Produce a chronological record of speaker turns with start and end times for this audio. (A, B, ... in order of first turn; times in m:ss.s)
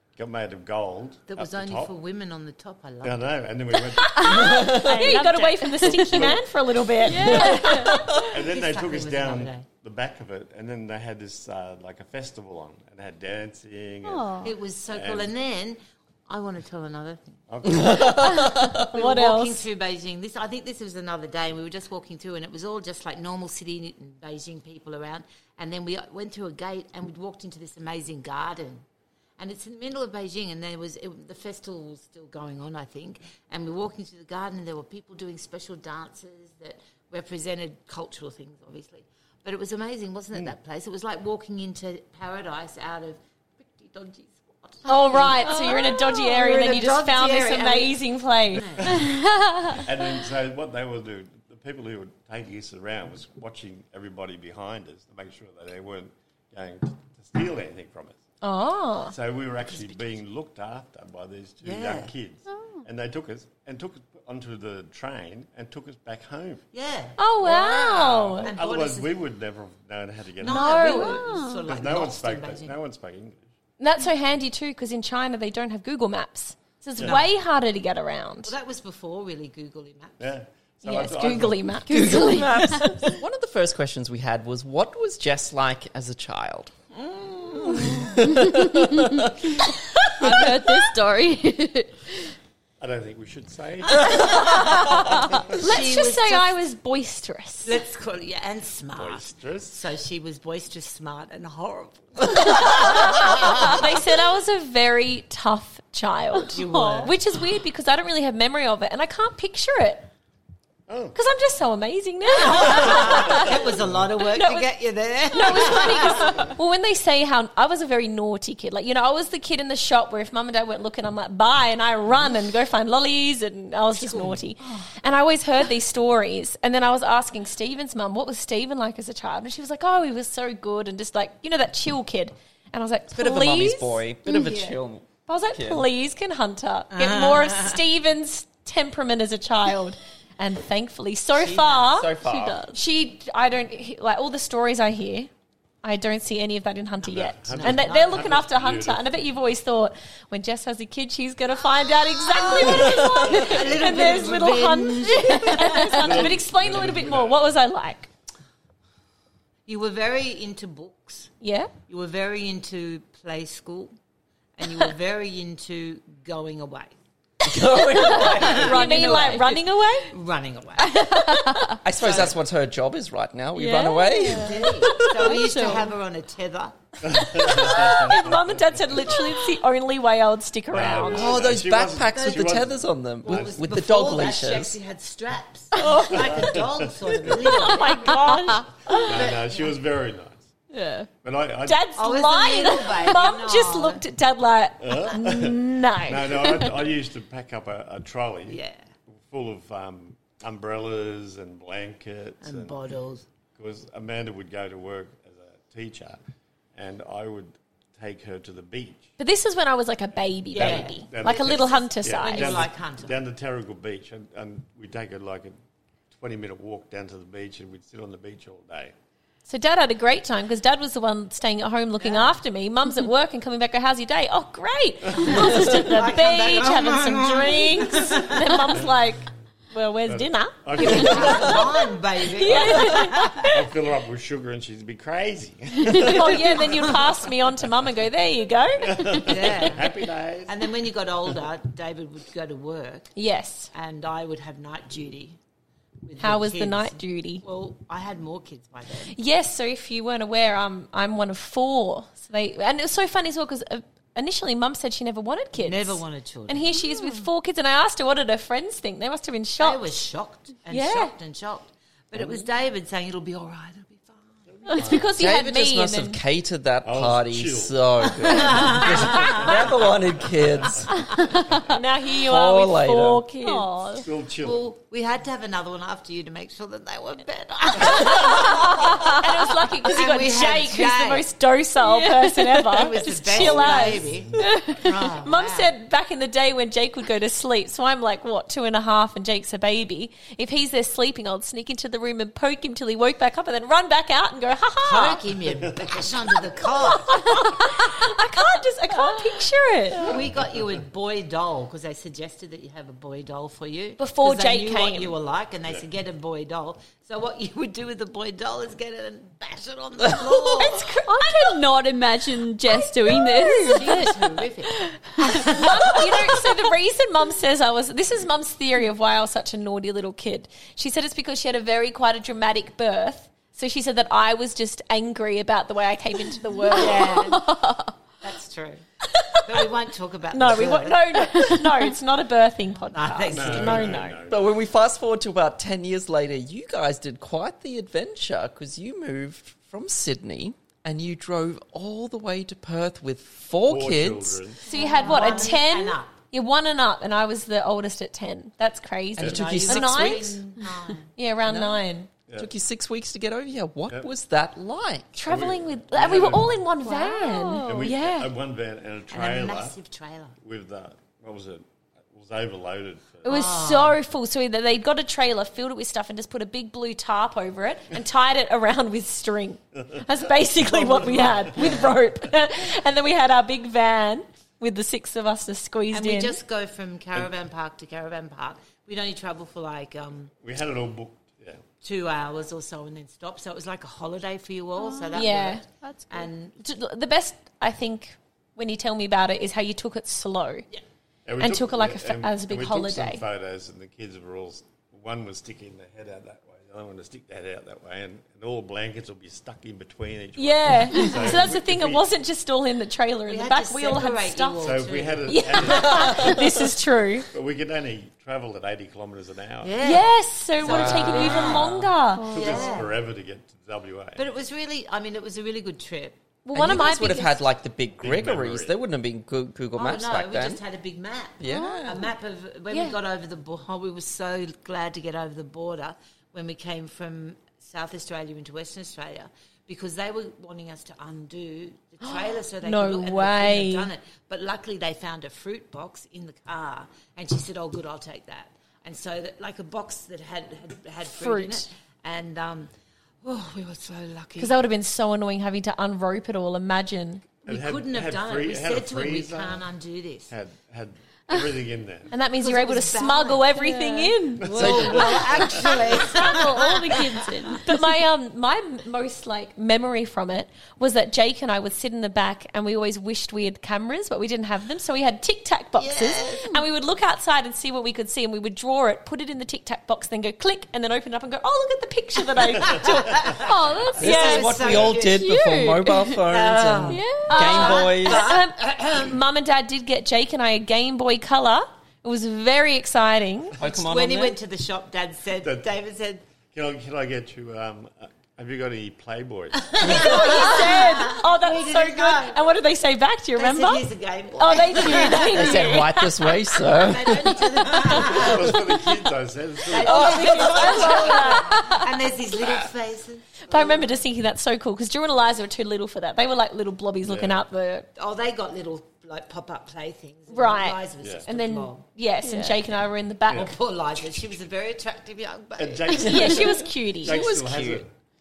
0:00.2-0:01.9 A
0:01.3-0:03.2 B
0:03.0-0:04.7 A
0:04.0-0:07.9 C
0:04.2-0:06.3 D
0:04.3-0:05.0 E
0:05.8-0:06.5 A
0:07.0-0:14.4 A
0:07.0-0:08.2 D
0:07.3-0:08.2 E
0:08.4-0:09.7 B
0:14.0-0:14.5 D
0:14.4-0:17.3 B
0:14.9-0:15.3 A
0:17.5-0:18.4 A
0:17.6-0:18.9 E
0:18.8-0:28.8 B
0:18.9-0:19.7 C
0:29.4-0:48.0 B
0:44.9-0:48.7 C
0:45.4-0:46.1 D
0:48.5-0:49.1 B
0:48.8-0:49.1 A
0:48.9-0:49.8 D
0:49.8-0:58.2 A
0:58.4-0:59.1 C
0:59.0-1:06.6 A
0:59.7-1:00.1 B
1:01.6-1:02.1 B
1:02.5-1:02.8 D
1:06.7-1:07.2 B
1:07.2-1:08.5 C
1:07.4-1:13.5 A
1:08.4-1:09.1 B
1:10.4-1:12.7 B
1:10.4-1:11.3 C
1:10.9-1:11.6 D
1:13.8-1:18.5 C
1:17.0-1:17.3 B
1:18.4-1:20.3 B
1:20.2-1:21.8 A
1:20.8-1:23.2 C
1:21.9-1:22.9 D
1:21.9-1:26.7 E
1:27.5-1:29.5 E
1:28.3-1:29.3 D
1:30.1-1:32.3 D
1:30.2-1:30.5 E
1:32.8-1:35.5 A
1:34.4-1:34.9 B
1:34.5-1:34.8 C
1:35.5-1:36.5 B
1:35.5-1:37.8 C
1:37.6-1:44.0 B
1:38.9-1:39.8 A
1:42.8-1:50.1 C
1:46.5-1:47.2 B
1:46.6-1:47.1 D
1:50.9-1:51.2 A
1:51.1-1:53.6 C
1:52.4-1:56.5 B
1:53.0-1:54.0 A
1:54.3-1:54.7 C
1:55.3-2:14.1 C
2:04.0-2:04.9 B
2:13.1-2:15.9 E
2:15.3-2:22.1 C
2:16.9-2:17.8 B
2:21.4-2:22.0 B
2:21.9-2:22.6 E
2:22.2-2:22.8 D
2:22.7-2:25.3 C
2:25.8-2:38.1 C
2:27.0-2:29.1 A
2:27.5-2:28.4 B
2:32.4-2:36.3 B
2:32.9-2:34.4 A
2:35.8-2:37.5 A
2:39.6-2:41.3 B
2:41.4-2:41.7 C
2:41.9-2:43.9 B
2:44.6-2:47.0 B
2:47.4-2:49.4 E
2:47.9-2:50.1 C
2:48.1-2:48.8 B
2:48.2-2:49.6 D
2:50.1-2:51.0 B
2:50.8-2:51.8 D
2:51.8-2:54.7 E
2:52.0-2:52.4 B
2:53.6-2:55.9 D
2:54.3-2:56.9 B
2:57.0-2:59.3 A
2:57.1-3:01.4 C
3:00.7-3:03.6 A
3:01.1-3:04.8 E
3:02.1-3:02.7 B
3:03.2-3:08.4 B
3:05.8-3:06.2 D
3:05.9-3:07.6 A
3:07.4-3:09.1 C
3:08.1-3:08.6 D
3:08.9-3:10.4 A
3:09.0-3:09.7 B
3:10.7-3:11.1 D
3:11.2-3:11.9 A
3:11.6-3:16.7 C
3:11.9-3:14.0 B
3:14.8-3:18.6 A
3:18.5-3:18.9 B
3:19.3-3:22.8 A
3:22.4-3:23.3 B
3:23.6-3:26.2 A
3:26.7-3:29.1 A
3:29.2-3:32.6 C
3:30.5-3:33.2 B
3:30.5-3:35.6 A
3:36.1-3:38.9 A
3:39.4-3:53.6 C
3:42.0-3:42.4 B
3:45.2-3:48.7 B
3:45.2-3:45.7 A
3:50.1-3:51.8 A
3:50.8-3:53.5 B
3:52.5-3:57.0 A
3:55.9-3:59.7 C
3:58.8-4:00.5 A
3:59.3-3:59.9 B
4:00.5-4:03.1 B
4:03.2-4:03.7 C
4:03.7-4:05.4 B
4:06.0-4:09.1 B
4:06.2-4:07.4 C
4:09.1-4:20.0 C
4:15.6-4:16.8 B
4:19.6-4:24.8 B
4:20.7-4:21.1 C
4:24.5-4:25.2 A
4:24.7-4:26.2 C
4:25.2-4:30.9 E
4:26.8-4:31.6 A
4:28.2-4:29.6 B
4:31.7-4:34.0 C
4:32.3-4:33.2 E
4:33.4-4:33.8 D
4:34.0-4:34.7 A
4:34.4-4:39.2 B
4:38.1-4:44.0 C
4:39.8-4:41.3 B
4:41.8-4:42.8 D
4:42.7-4:45.7 B
4:43.4-4:44.7 A
4:44.4-4:44.8 D
4:44.7-4:55.2 C
4:54.8-4:57.3 B
4:55.6-4:57.1 A
4:56.9-5:00.1 C
5:00.0-5:10.8 B
5:00.0-5:00.8 A
5:04.0-5:05.2 C
5:10.3-5:11.6 C
5:11.1-5:14.1 D
5:13.1-5:14.0 C
5:13.6-5:16.2 B
5:14.8-5:15.6 D
5:15.2-5:27.4 C
5:26.7-5:27.5 B
5:26.8-5:27.9 D
5:28.2-5:28.8 B
5:29.2-5:29.6 C
5:29.4-5:31.3 B
5:30.3-5:34.2 C
5:31.3-5:31.7 D
5:32.9-5:34.1 B
5:33.3-5:34.5 A
5:34.3-5:44.4 E
5:43.6-5:44.6 A
5:44.6-5:50.4 C
5:44.7-5:45.5 D
5:44.7-5:46.2 B
5:49.2-5:50.4 E
5:49.2-5:51.1 B
5:51.2-5:52.1 C
5:51.5-5:51.8 E
5:52.4-5:55.2 E
5:55.2-5:58.3 C
5:55.2-5:56.6 A
5:56.8-5:57.9 D
5:57.6-5:59.8 A
5:59.1-6:00.4 B
6:00.4-6:03.5 A
6:03.2-6:16.4 C
6:03.2-6:04.0 B
6:10.6-6:11.9 A
6:15.9-6:20.3 B
6:20.4-6:21.6 A
6:21.8-6:26.6 B
6:24.8-6:26.3 D
6:25.1-6:25.6 C
6:26.6-6:30.7 C
6:31.3-6:42.1 A
6:31.4-6:33.2 C
6:40.4-6:47.3 C
6:43.3-6:45.7 B
6:44.6-6:46.4 A
6:46.0-6:46.3 E
6:47.3-6:50.0 A
6:49.6-6:50.1 B
6:49.8-6:52.4 C
6:50.6-6:51.7 B
6:50.6-6:54.3 A
6:50.6-6:51.3 E
6:51.2-6:51.5 D
6:52.1-6:52.8 D
6:52.3-6:53.0 B
6:54.2-6:56.2 B
6:56.4-6:57.4 C
6:56.5-7:00.6 E
6:58.0-6:58.8 A
6:59.8-7:22.7 B
7:01.4-7:02.1 E
7:01.5-7:01.7 D
7:02.7-7:03.0 C
7:12.4-7:13.9 C
7:21.1-7:21.7 C
7:23.2-7:24.6 B
7:24.4-7:27.2 C
7:27.4-7:29.6 A
7:27.4-7:30.3 B
7:30.3-7:32.1 A
7:32.1-7:34.7 C
7:32.4-7:33.5 B
7:33.6-7:34.4 D
7:34.4-7:36.0 A
7:34.5-7:37.6 B
7:34.5-7:35.5 E
7:35.9-7:53.4 C
7:36.0-7:37.8 D
7:45.8-7:46.5 B
7:52.6-7:55.3 B
7:53.4-7:56.2 D
7:54.0-7:58.3 E
7:54.0-7:54.5 C
7:54.6-7:54.9 A
7:56.2-7:59.2 B
7:56.9-7:57.8 D
7:57.3-8:03.6 C
8:03.6-8:04.4 E
8:03.6-8:06.2 B
8:05.4-8:05.7 A
8:06.4-8:10.1 A
8:09.6-8:12.4 B
8:09.8-8:16.3 C
8:13.4-8:15.8 B
8:15.1-8:18.3 E
8:16.7-8:18.6 B
8:18.0-8:20.3 A
8:19.6-8:23.9 B
8:19.8-8:21.4 E
8:19.8-8:21.8 C
8:21.5-8:21.8 D
8:23.5-8:27.9 C
8:27.0-8:27.4 A
8:28.0-8:31.8 B
8:30.3-8:33.5 C
8:32.2-8:32.6 D
8:33.3-8:36.3 B
8:35.6-8:37.9 A
8:35.9-8:37.2 C
8:37.0-8:37.8 E